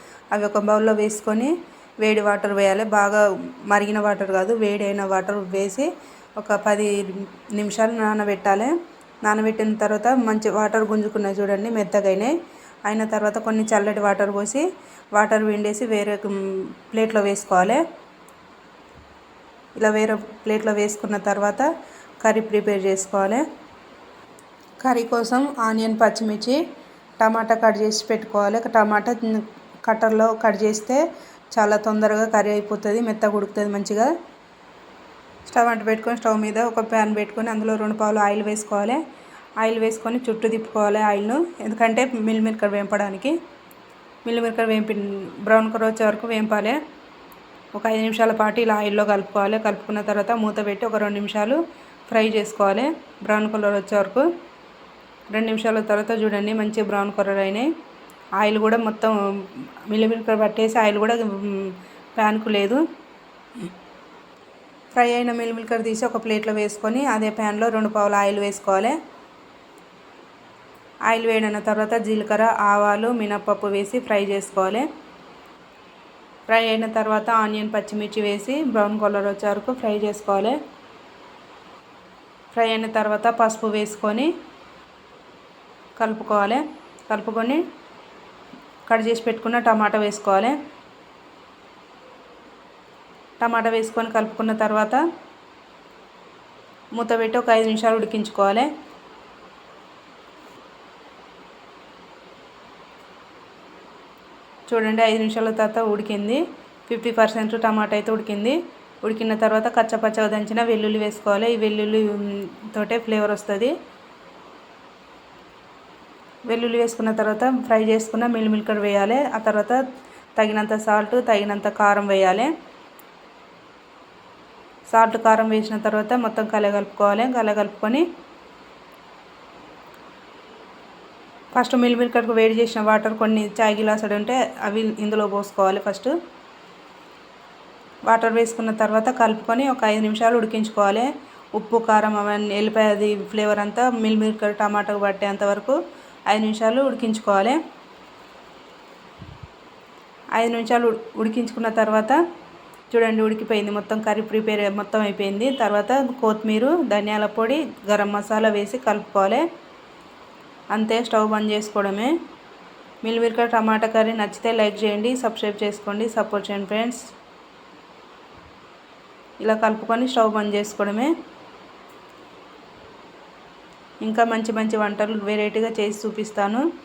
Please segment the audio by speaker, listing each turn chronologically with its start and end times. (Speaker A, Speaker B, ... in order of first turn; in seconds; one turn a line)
Speaker A: 0.3-8.7
Speaker A: 9.2-17.8
Speaker A: 19.8-21.7
Speaker A: 22.2-23.4
Speaker A: 24.8-26.6
Speaker A: 27.2-31.0
Speaker A: 31.6-34.1
Speaker A: 35.5-39.0
Speaker A: 39.6-43.4
Speaker A: 44.2-46.8
Speaker A: 47.7-54.3
Speaker A: 55.3-57.7
Speaker A: 58.4-62.8
Speaker A: 65.0-69.0
Speaker A: 71.1-74.9
Speaker A: 76.5-80.6
Speaker A: 82.5-84.3
Speaker A: 86.0-87.6
Speaker A: 88.9-90.6
Speaker A: 93.4-95.0
Speaker A: 97.0-98.7
Speaker A: 104.7-113.7
Speaker A: 116.5-119.8
Speaker A: 120.4-122.5
Speaker A: 124.9-128.1
Speaker A: 131.6-136.1
Speaker A: 138.1-147.6
Speaker A: 150.4-152.2
Speaker A: 152.9-159.4
Speaker A: 160.7-162.1
Speaker A: 163.0-167.0
Speaker A: 169.4-171.1
Speaker A: 174.0-176.6